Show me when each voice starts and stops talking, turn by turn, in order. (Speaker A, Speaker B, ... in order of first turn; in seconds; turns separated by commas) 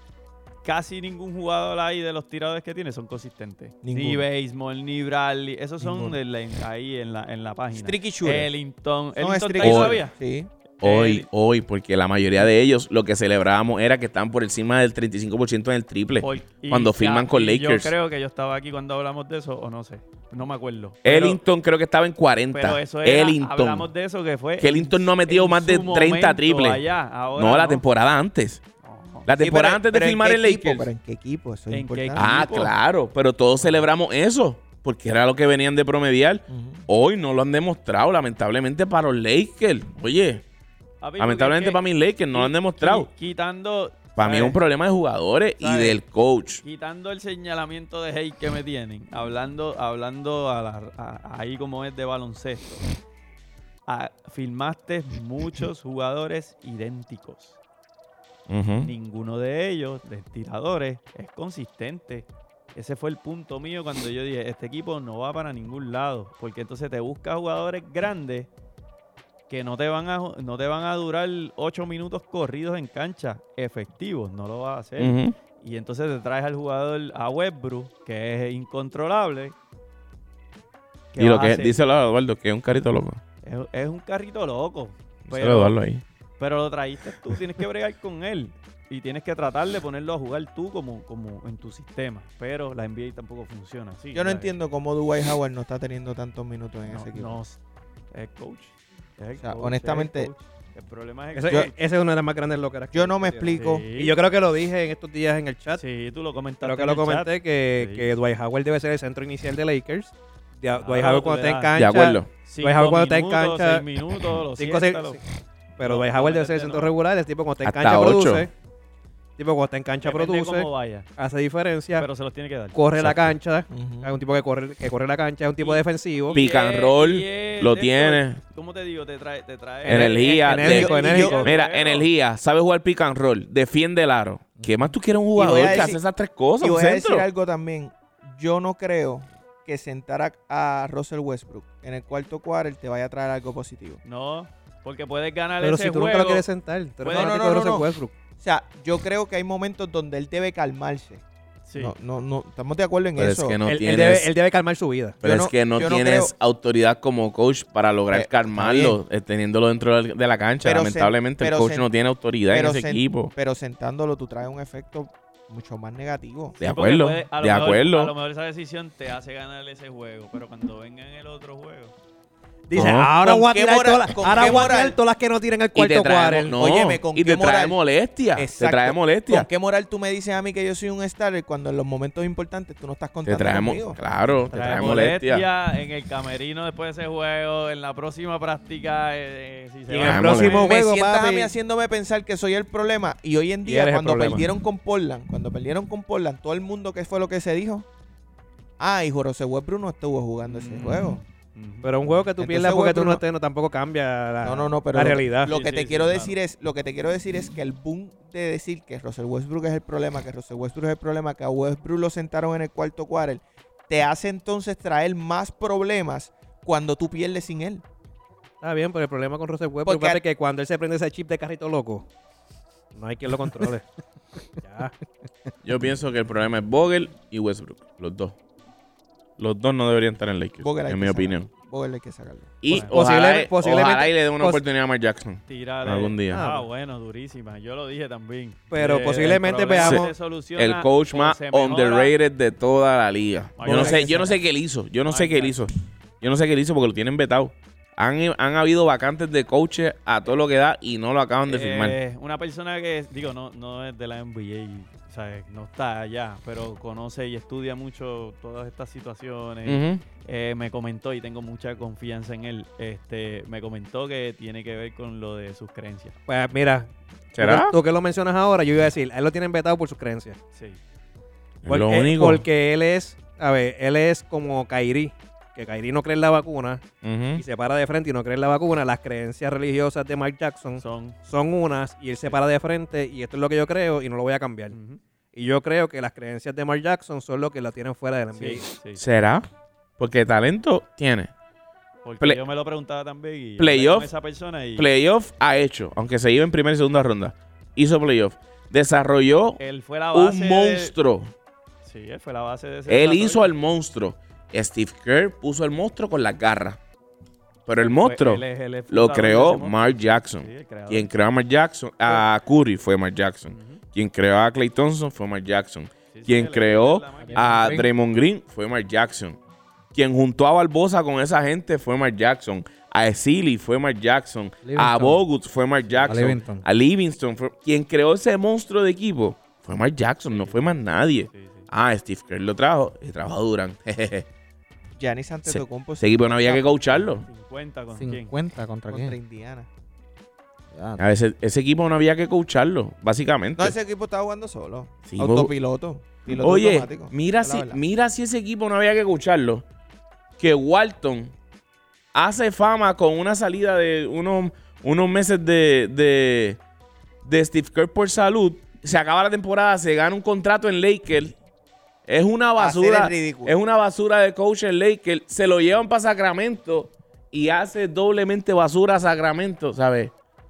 Speaker A: 0.6-10.1, Speaker B: 3.8-4.2, Speaker B: 5.8-6.2, Speaker B: 7.7-8.5, Speaker B: 9.2-10.5, Speaker C: 9.6-10.1, Speaker C: 10.8-17.9, Speaker A: 10.8-11.3, Speaker A: 16.2-21.4, Speaker C: 21.0-23.9, Speaker A: 22.5-27.8, Speaker C: 24.6-26.8, Speaker C: 27.4-28.6, Speaker A: 28.8-29.3, Speaker C: 29.2-30.9, Speaker B: 29.4-32.3, Speaker A: 31.7-32.7, Speaker C: 32.1-40.4, Speaker B: 36.5-36.8, Speaker A: 41.0-44.6, Speaker C: 41.2-43.1, Speaker C: 44.1-46.6, Speaker A: 45.6-46.0, Speaker A: 46.6-52.9, Speaker A: 53.9-57.6, Speaker C: 58.5-58.9, Speaker A: 58.8-68.5, Speaker A: 69.5-79.5, Speaker C: 75.0-75.3, Speaker A: 81.1-81.8, Speaker C: 81.2-83.2, Speaker A: 83.4-85.8, Speaker C: 85.3-86.0, Speaker A: 86.4-94.5, Speaker B: 94.1-97.4, Speaker A: 96.9-97.6, Speaker A: 98.1-101.7, Speaker B: 99.4-100.3, Speaker D: 101.3-105.8, Speaker B: 102.9-103.9, Speaker A: 103.5-104.2, Speaker A: 105.8-108.1, Speaker D: 106.6-113.8, Speaker A: 110.7-111.7, Speaker C: 111.7-112.3, Speaker A: 112.4-115.2, Speaker D: 114.5-115.2, Speaker D: 115.8-118.5, Speaker A: 115.8-116.9, Speaker C: 117.6-118.5, Speaker D: 119.4-122.1, Speaker A: 120.0-121.1, Speaker A: 122.0-122.8, Speaker D: 122.7-126.4, Speaker C: 123.0-123.3, Speaker B: 123.7-124.2, Speaker A: 125.6-132.1, Speaker C: 126.3-128.4, Speaker D: 129.8-131.5, Speaker C: 129.9-137.3, Speaker B: 130.7-131.5, Speaker B: 135.3-136.0, Speaker A: 135.6-135.9, Speaker B: 136.6-144.0, Speaker A: 144.0-146.5, Speaker D: 145.6-148.1, Speaker A: 147.0-147.4, Speaker B: 147.1-151.2, Speaker A: 151.7-151.9, Speaker B: 151.8-153.6, Speaker C: 153.2-154.3, Speaker D: 153.6-155.2, Speaker B: 155.2-156.3, Speaker C: 155.2-163.3, Speaker B: 158.1-159.0, Speaker B: 160.6-161.9, Speaker B: 162.4-166.6, Speaker C: 166.6-168.1, Speaker A: 166.6-171.9, Speaker D: 172.7-176.6, Speaker C: 172.7-173.1, Speaker B: 173.2-175.0, Speaker C: 175.7-179.5, Speaker B: 176.6-177.8, Speaker B: 178.3-184.0, Speaker C: 183.2-185.4, Speaker A: 184.5-190.7, Speaker D: 189.9-191.5, Speaker C: 190.0-190.6, Speaker B: 190.4-197.9, Speaker D: 193.6-194.4, Speaker B: 198.8-201.2, Speaker A: 200.4-201.9, Speaker D: 201.8-205.5, Speaker B: 202.4-203.2, Speaker B: 204.4-217.8, Speaker A: 205.5-206.4, Speaker D: 218.6-222.1, Speaker B: 219.8-220.2, Speaker D: 222.9-223.8, Speaker D: 224.6-224.9, Speaker C: 225.6-228.3, Speaker C: 229.4-231.5, Speaker B: 230.6-232.5, Speaker C: 232.6-236.4, Speaker A: 232.7-232.9, Speaker D: 232.7-234.6, Speaker A: 235.5-242.1, Speaker D: 236.3-236.7, Speaker D: 238.7-240.1, Speaker C: 239.8-252.0, Speaker A: 243.6-244.3, Speaker B: 243.7-244.3, Speaker D: 243.7-244.2, Speaker A: 245.1-245.6, Speaker A: 251.4-266.1, Speaker C: 259.6-260.0, Speaker D: 266.3-270.4, Speaker C: 267.3-267.8, Speaker C: 271.6-272.4, Speaker D: 271.6-276.8, Speaker C: 277.0-277.4, Speaker D: 277.3-284.8, Speaker A: 280.8-281.2, Speaker A: 284.7-285.0, Speaker D: 285.3-288.7, Speaker A: 288.3-289.0, Speaker C: 288.9-289.4, Speaker C: 290.0-291.3, Speaker A: 292.0-294.9, Speaker C: 293.6-294.1, Speaker C: 294.8-299.6, Speaker A: 299.6-300.9, Speaker C: 300.1-301.3, Speaker A: 301.8-303.5, Speaker C: 302.9-306.8, Speaker C: 307.6-319.4, Speaker A: 308.0-311.1, Speaker A: 313.5-313.8, Speaker A: 316.1-317.9, Speaker C: 319.9-334.3, Speaker E: 324.6-325.2, Speaker A: 325.8-326.2, Speaker E: 326.1-326.6, Speaker A: 330.3-331.7, Speaker B: 335.0-336.7, Speaker C: 335.4-337.3, Speaker A: 337.2-338.3, Speaker E: 337.9-339.2, Speaker B: 338.9-339.7, Speaker E: 340.7-341.0, Speaker C: 341.0-343.8, Speaker B: 343.6-347.8, Speaker C: 345.0-345.5, Speaker C: 346.3-349.6, Speaker C: 350.4-351.3, Speaker C: 352.1-356.6, Speaker C: 357.2-361.3, Speaker C: 362.1-370.1, Speaker B: 362.6-363.6